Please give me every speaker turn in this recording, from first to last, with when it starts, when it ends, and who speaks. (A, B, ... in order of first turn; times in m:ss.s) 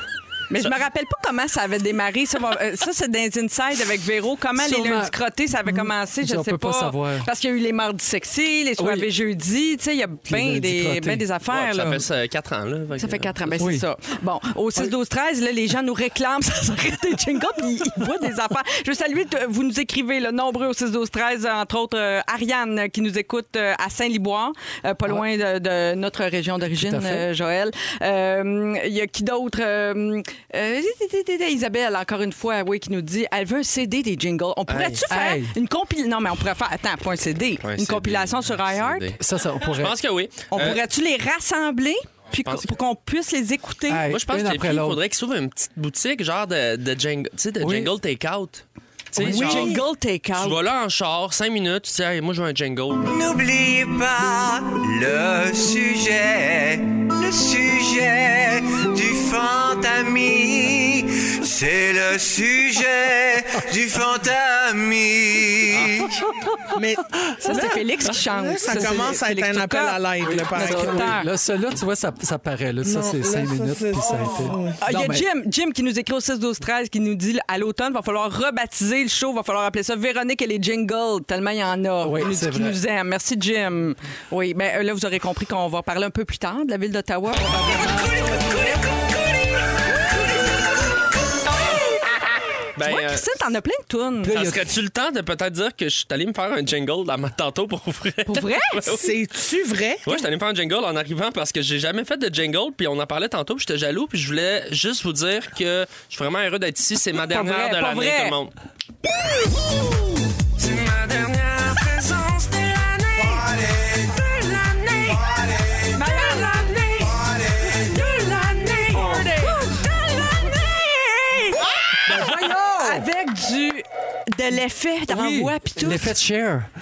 0:00.5-0:12.0 A
0:04.6-0:07.3 B
0:08.8-0:09.1 B
0:10.3-0:11.3 B
0:11.5-0:13.5 C
0:13.0-0:39.1 A
0:13.6-0:13.9 B
0:26.8-0:27.3 B
0:34.7-0:35.0 C
0:35.1-0:35.6 B
0:37.6-0:39.2 C
0:39.2-0:40.0 B
0:39.8-0:40.8 C
0:40.5-0:44.0 A
0:42.4-0:42.7 C
0:43.9-0:45.0 B
0:44.1-0:49.8 C
0:47.6-0:47.9 B
0:49.2-0:49.5 B
0:49.2-0:49.8 D
0:49.2-0:50.6 A
0:50.4-0:53.2 C
0:53.0-1:06.2 E
1:06.7-1:11.1 D
1:07.4-1:11.3 A
1:08.7-1:09.0 B
1:10.2-1:15.3 B
1:12.8-1:14.8 D
1:14.8-1:27.8 A
1:22.0-1:22.8 B
1:27.4-1:28.8 B
1:32.8-1:33.3 C
1:32.8-1:34.4 A
1:34.2-1:34.7 B
1:34.3-1:39.1 C
1:38.3-1:38.9 A
1:38.9-1:40.1 D
1:40.0-1:48.5 C
1:47.3-1:48.4 A
1:50.6-1:53.6 C
1:54.1-1:55.3 C
1:55.9-1:57.2 A
1:57.8-2:06.2 A
2:02.1-2:03.1 B
2:05.1-2:06.7 B